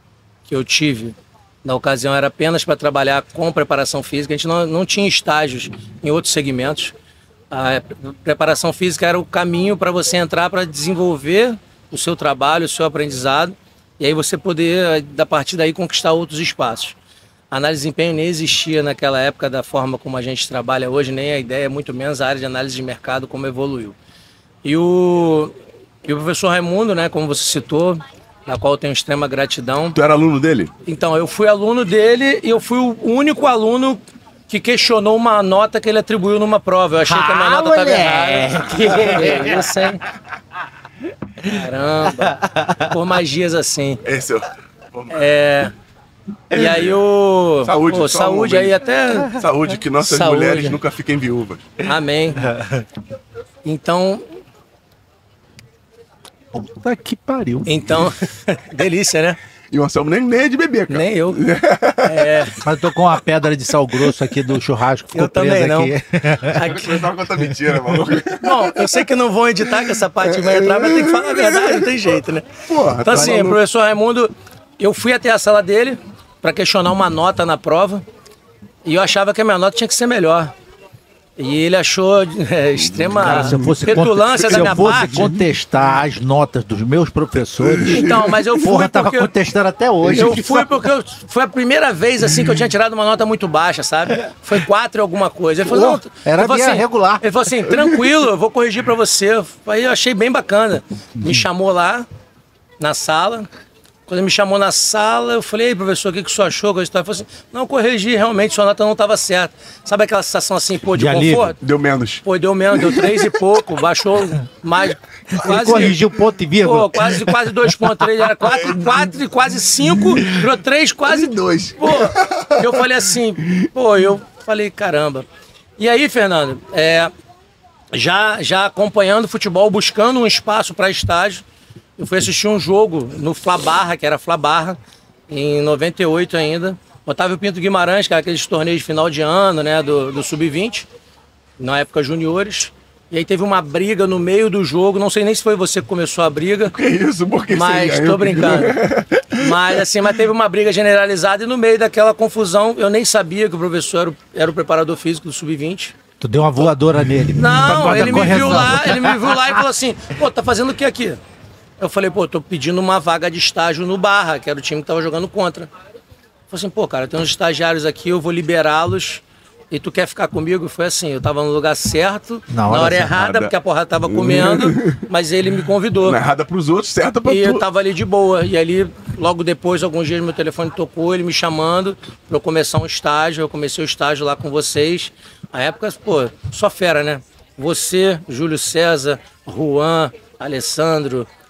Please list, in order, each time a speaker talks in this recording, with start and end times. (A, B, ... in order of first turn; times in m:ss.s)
0:00.5-0:06.9 A
0:07.5-0:17.0 A
0:17.5-0:24.0 A
0:24.6-0:25.5 A
0:26.0-0:30.0 A
0:29.9-0:30.7 B
0:30.9-0:40.0 A
0:37.1-0:39.9 C
0:41.5-0:44.0 A
0:42.2-0:42.9 C
0:44.0-0:45.3 B
0:45.1-0:45.7 A
0:46.5-0:49.4 A
0:46.5-0:47.0 B
0:47.6-0:51.8 B
0:50.0-0:50.8 A
0:51.8-0:52.5 A
0:52.4-0:52.8 C
0:53.6-0:54.3 A
0:56.5-0:58.1 C
0:57.7-0:59.4 A
0:59.7-1:02.5 B
1:00.9-1:01.4 A
1:02.0-1:02.6 A
1:02.6-1:06.7 C
1:05.1-1:06.0 A
1:06.5-1:07.1 A
1:06.6-1:09.1 B
1:08.4-1:18.0 A
1:09.6-1:12.0 B
1:12.7-1:13.6 B
1:18.8-1:20.5 A
1:21.4-1:25.4 A
1:22.8-1:24.7 B
1:23.2-1:30.4 C
1:27.6-1:28.6 B
1:27.9-1:29.3 A
1:30.0-1:30.8 B
1:30.1-1:42.1 A
1:35.6-1:37.2 C
1:42.8-1:43.5 A
1:44.1-1:51.6 A
1:50.9-1:51.6 C
1:51.6-1:53.5 B
1:52.2-1:56.0 A
1:55.3-1:58.1 C
1:56.6-2:05.2 A
1:58.5-1:59.1 B
2:01.0-2:03.7 B
2:05.8-2:07.1 A
2:07.9-2:11.4 A
2:12.0-2:14.8 A
2:15.3-2:20.9 A
2:21.6-2:26.8 A
2:26.7-2:29.8 B
2:27.5-2:28.8 A
2:29.4-2:36.0 A
2:36.2-2:39.6 C
2:37.4-2:41.2 A
2:41.8-2:45.7 A
2:46.5-2:56.2 A
2:52.5-2:53.2 C
2:53.0-2:53.5 B
2:54.0-2:55.1 B
2:56.0-2:57.6 B
2:57.3-3:11.3 A